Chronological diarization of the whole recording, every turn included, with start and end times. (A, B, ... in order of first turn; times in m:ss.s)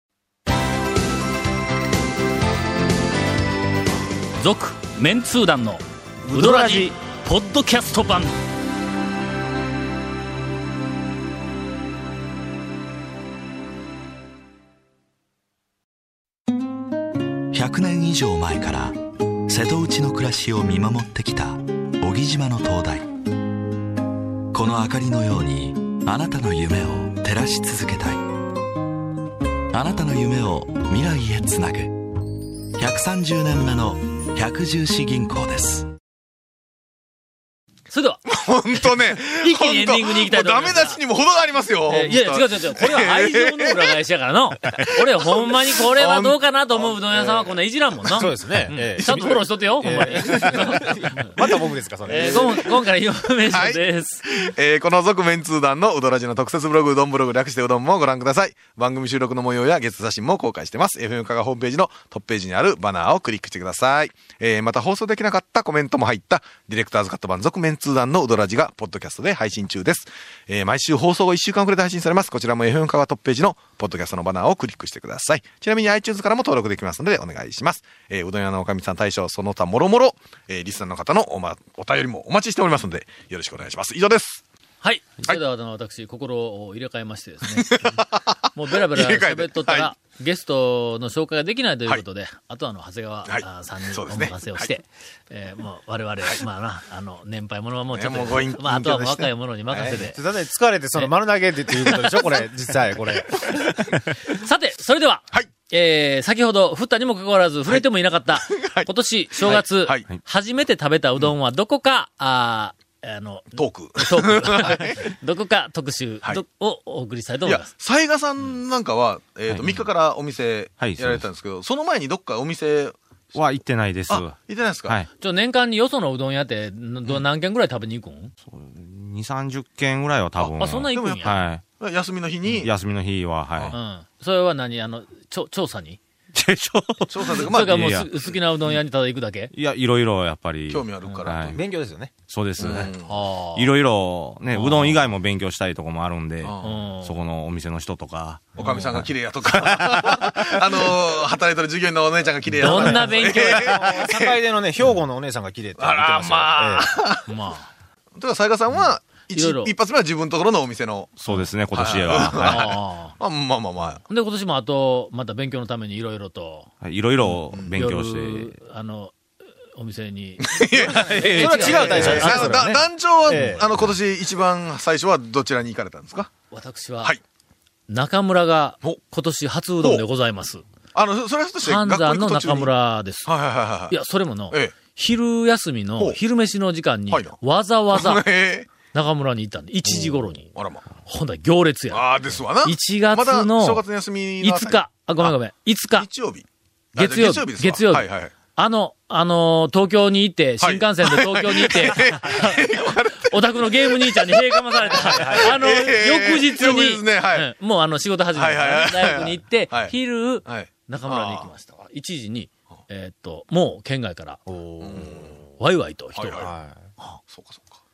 0:04.4-0:08.4 A
0:06.2-0:06.9 B
0:17.5-0:23.1 C
0:24.5-0:28.4 C
0:29.7-0:32.2 C
0:32.8-0:35.9 C
0:37.9-0:38.2 A
0:38.3-0:43.9 D
0:38.8-0:41.0 A
0:41.9-0:51.3 A
0:44.7-0:48.1 D
0:48.2-0:52.7 B
0:49.0-0:49.4 D
0:49.9-0:52.7 D
0:52.1-0:54.3 A
0:53.4-1:24.4 D
1:24.8-1:28.0 A
1:27.5-1:29.9 D
1:28.5-1:40.2 A
1:33.3-1:34.7 D
1:37.9-1:40.0 D
1:39.9-1:43.9 B
1:41.8-1:42.1 A
1:44.3-1:57.7 A
1:48.4-1:50.1 D
1:53.6-1:55.1 D
1:57.4-2:03.0 D
1:59.5-1:59.9 E
2:00.8-2:01.2 E
2:03.3-2:05.1 E
2:04.1-2:05.0 D
2:05.2-2:08.3 A
2:08.5-2:11.6 E
2:10.4-2:12.7 D
2:10.6-2:11.4 A
2:12.5-2:13.8 E
2:13.7-2:16.0 A
2:16.4-2:18.1 E
2:17.1-2:18.4 D
2:17.3-2:19.5 A
2:19.5-2:21.6 E
2:20.7-2:21.6 D
2:21.6-2:22.1 B
2:22.3-2:23.0 E
2:22.6-2:23.1 D
2:23.0-2:23.7 A
2:23.6-2:30.3 E
2:24.6-2:25.0 A
2:26.4-2:26.8 D
2:26.6-2:27.2 A
2:28.6-2:34.4 D
2:32.6-2:34.1 A
2:32.6-2:36.9 B
2:35.8-2:37.3 D
2:37.3-2:37.7 A
2:38.2-2:44.0 D
2:39.3-2:39.7 A
2:41.2-2:42.8 E
2:42.4-2:43.2 A
2:44.1-2:46.7 A
2:46.8-2:48.6 E
2:47.2-2:47.8 D
2:47.7-2:49.2 A
2:49.8-2:52.7 A
2:50.4-2:56.3 D
2:50.9-2:53.7 B
2:56.5-2:57.1 A
2:57.9-3:00.6 A
3:01.0-3:02.7 D
3:01.6-3:03.3 A
3:03.3-3:03.9 D
3:03.9-3:10.5 A
3:07.1-3:07.4 D
3:07.9-3:08.7 D
3:09.9-3:10.9 D
3:11.0-3:13.8 A
3:11.9-3:15.3 D
3:14.4-3:16.1 A
3:16.0-3:18.3 D
3:17.0-3:22.6 A
3:20.6-3:27.5 D
3:23.2-3:34.4 A
3:24.9-3:25.6 B
3:28.4-3:31.5 D
3:34.5-3:35.4 B
3:34.8-3:35.4 D
3:35.6-3:36.5 A
3:36.2-3:36.5 D
3:36.4-3:36.8 B
3:37.3-3:37.8 D